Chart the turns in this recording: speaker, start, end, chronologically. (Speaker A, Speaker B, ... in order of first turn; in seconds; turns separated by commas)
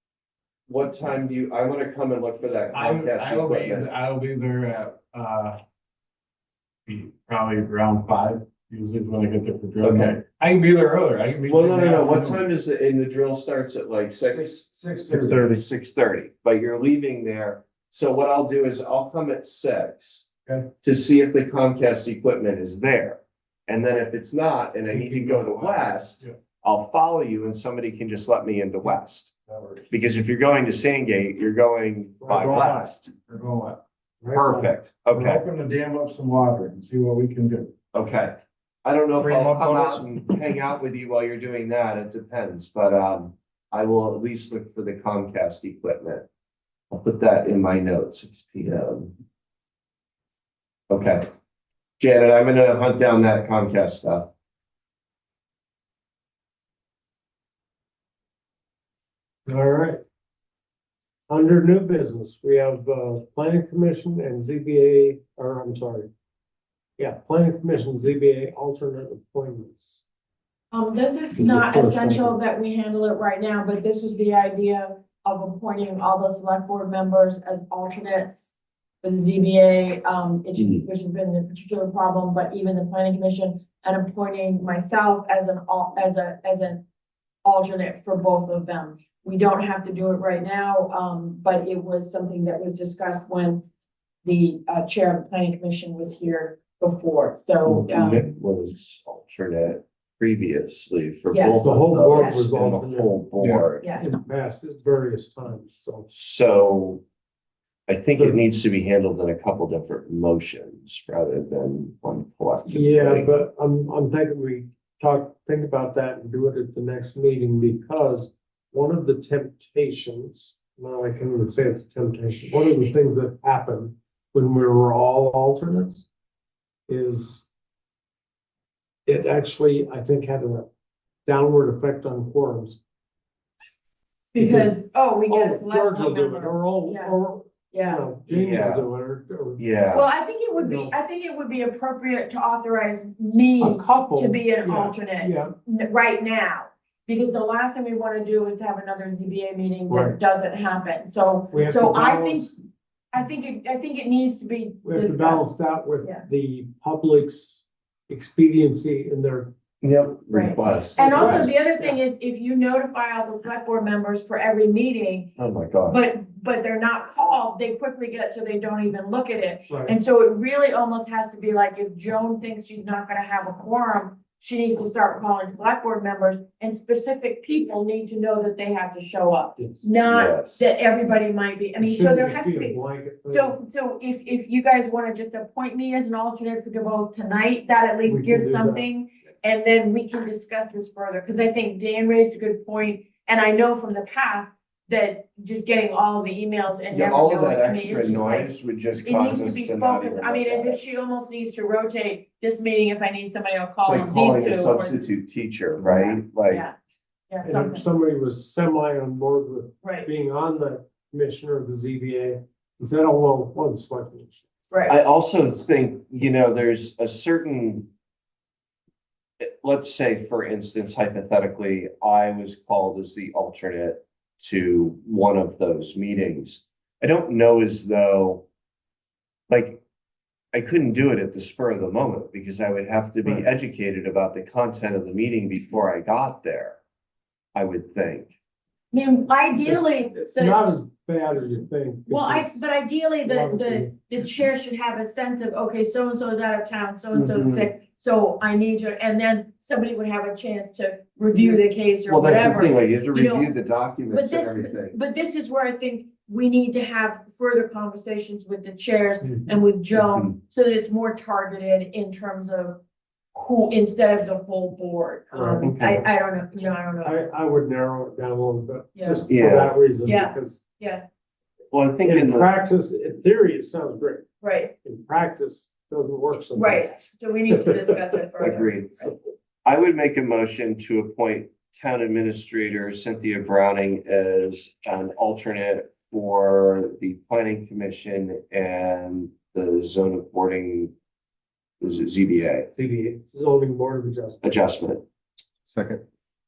Speaker A: 0.7-3.9, Speaker B: 2.7-5.6, Speaker B: 6.9-12.4, Speaker A: 9.8-10.2, Speaker A: 11.5-20.2, Speaker C: 14.8-15.1, Speaker B: 15.1-15.4, Speaker A: 20.8-29.3, Speaker B: 24.9-26.3, Speaker B: 29.5-29.8, Speaker A: 29.9-33.1, Speaker C: 32.2-32.6, Speaker B: 32.3-33.8, Speaker C: 34.2-34.7, Speaker A: 34.3-35.4, Speaker B: 35.1-37.7, Speaker A: 37.9-46.3, Speaker B: 39.2-40.1, Speaker A: 46.9-49.1, Speaker A: 50.9-51.3, Speaker A: 52.0-54.3, Speaker C: 59.5-60.0, Speaker C: 61.3-66.1, Speaker C: 67.0-70.0, Speaker D: 70.7-86.8, Speaker C: 71.3-72.4, Speaker A: 80.6-80.8, Speaker D: 87.5-93.7, Speaker D: 94.2-98.2, Speaker A: 97.7-103.8, Speaker D: 101.3-102.4, Speaker C: 101.6-103.2, Speaker B: 103.4-103.7, Speaker D: 103.8-104.2, Speaker C: 104.0-106.1, Speaker A: 106.1-107.0, Speaker A: 107.9-113.3, Speaker C: 112.7-126.1, Speaker C: 126.9-127.4, Speaker C: 129.1-130.7, Speaker C: 131.3-132.8, Speaker D: 134.3-137.2, Speaker C: 134.4-139.6, Speaker D: 137.7-138.1, Speaker A: 138.3-138.9, Speaker A: 139.6-140.1, Speaker D: 139.9-152.5, Speaker C: 140.6-140.9, Speaker C: 143.6-145.6, Speaker C: 151.5-152.5, Speaker D: 153.1-156.2, Speaker C: 154.8-159.5, Speaker A: 159.8-161.5, Speaker D: 160.3-165.3, Speaker C: 161.0-162.0, Speaker A: 165.4-166.0, Speaker D: 165.9-205.0, Speaker C: 169.7-169.9, Speaker C: 179.6-179.8, Speaker A: 180.1-180.7, Speaker C: 181.8-183.6, Speaker C: 188.1-188.9, Speaker A: 196.9-200.8, Speaker A: 203.8-206.6, Speaker D: 205.8-206.8, Speaker D: 207.3-207.9, Speaker C: 207.4-214.4, Speaker D: 209.8-210.1, Speaker D: 214.7-215.0, Speaker A: 214.9-217.9, Speaker A: 219.4-228.4, Speaker A: 229.5-229.8, Speaker A: 230.5-236.8, Speaker C: 233.2-233.5, Speaker A: 237.5-238.3, Speaker D: 238.9-240.6, Speaker C: 239.6-242.6, Speaker D: 242.1-253.6, Speaker C: 243.2-243.9, Speaker A: 247.1-247.7, Speaker A: 252.1-255.0, Speaker D: 254.1-262.8, Speaker A: 259.9-260.4, Speaker D: 263.3-267.2, Speaker C: 265.3-266.1, Speaker C: 266.6-270.6, Speaker D: 268.9-269.3, Speaker A: 269.3-269.7, Speaker D: 270.1-271.0, Speaker A: 271.7-272.5, Speaker C: 272.0-274.2, Speaker D: 274.4-274.7, Speaker C: 274.8-276.9, Speaker D: 276.5-279.1, Speaker C: 277.5-278.0, Speaker A: 278.4-279.1, Speaker A: 279.6-290.9, Speaker A: 291.8-292.7, Speaker C: 292.8-294.4, Speaker A: 294.4-295.0